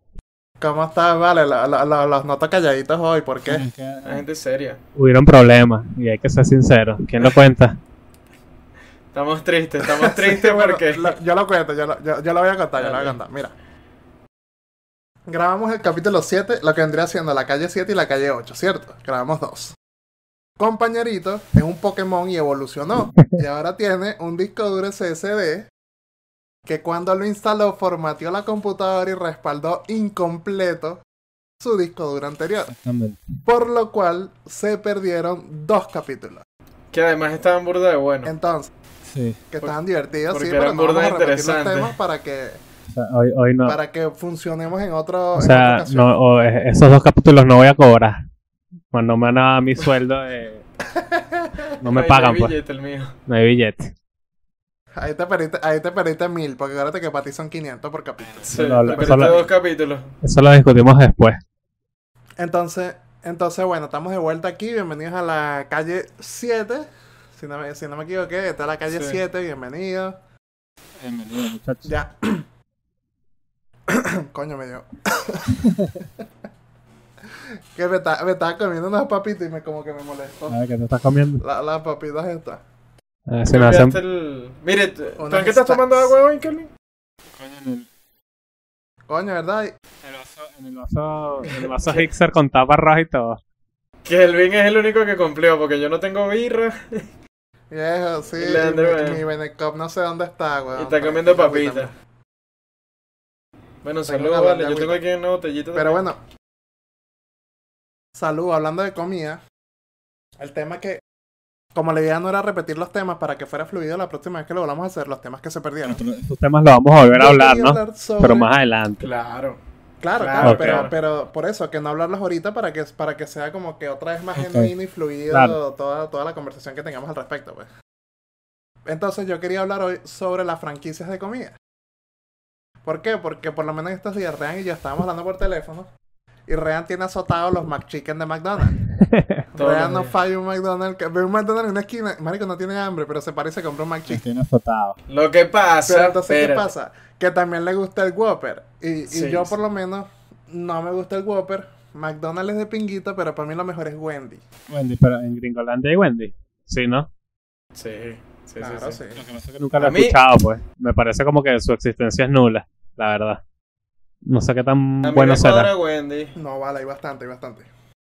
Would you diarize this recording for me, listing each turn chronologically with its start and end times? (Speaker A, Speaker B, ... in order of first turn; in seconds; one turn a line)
Speaker A: 0.6-3.7
Speaker B: 3.5-4.2
Speaker C: 4.0-4.8
Speaker B: 5.0-7.8
Speaker C: 9.1-11.2
Speaker A: 9.8-13.5
Speaker C: 12.8-13.2
Speaker A: 15.3-19.8
Speaker A: 20.6-25.7
Speaker B: 23.1-23.4
Speaker A: 26.7-31.0
Speaker A: 31.6-32.7
Speaker B: 32.7-33.4
Speaker A: 33.5-36.4
Speaker C: 36.9-38.3
Speaker A: 38.2-38.7
Speaker B: 39.0-39.4
Speaker A: 39.5-42.6
Speaker C: 40.3-41.9
Speaker B: 42.9-43.8
Speaker A: 43.6-46.1
Speaker B: 45.4-48.2
Speaker B: 48.9-50.6
Speaker A: 50.8-51.7
Speaker B: 51.8-52.5
Speaker C: 51.9-53.1
Speaker B: 53.3-53.9
Speaker A: 55.0-59.5
Speaker B: 58.2-59.5
Speaker C: 58.4-60.1
Speaker B: 60.2-61.4
Speaker A: 62.4-70.2
Speaker C: 68.9-69.2
Speaker B: 71.0-72.0
Speaker A: 71.8-72.5
Speaker A: 73.9-76.2
Speaker B: 75.6-76.0
Speaker A: 77.3-80.6
Speaker B: 80.5-81.4
Speaker A: 81.4-82.6
Speaker B: 83.3-84.0
Speaker C: 83.5-86.7
Speaker A: 85.2-86.1
Speaker B: 87.4-87.9
Speaker A: 89.1-89.7
Speaker B: 90.0-93.4
Speaker C: 91.5-92.1
Speaker C: 94.0-97.0
Speaker A: 97.7-101.9
Speaker C: 98.4-99.2
Speaker C: 100.8-101.9
Speaker C: 103.8-106.0
Speaker A: 104.1-105.0
Speaker A: 105.7-106.2
Speaker A: 108.2-109.4
Speaker A: 110.4-111.0
Speaker A: 111.8-116.0
Speaker B: 115.8-119.0
Speaker A: 117.1-118.5
Speaker C: 119.0-119.6
Speaker A: 120.0-127.7
Speaker C: 120.2-121.0
Speaker B: 120.4-120.9
Speaker B: 124.3-124.7
Speaker B: 125.3-125.6
Speaker A: 128.9-131.6
Speaker A: 132.8-135.9
Speaker A: 136.5-138.8
Speaker B: 138.9-139.4
Speaker A: 139.5-144.2
Speaker C: 139.6-140.1
Speaker B: 144.1-145.0
Speaker C: 145.1-146.7
Speaker A: 145.9-154.4
Speaker C: 149.1-149.5
Speaker B: 154.7-157.1
Speaker C: 157.8-159.0
Speaker A: 158.6-159.2
Speaker B: 159.2-163.4
Speaker C: 159.8-160.2
Speaker B: 164.3-165.7
Speaker C: 165.0-166.3
Speaker A: 166.4-167.7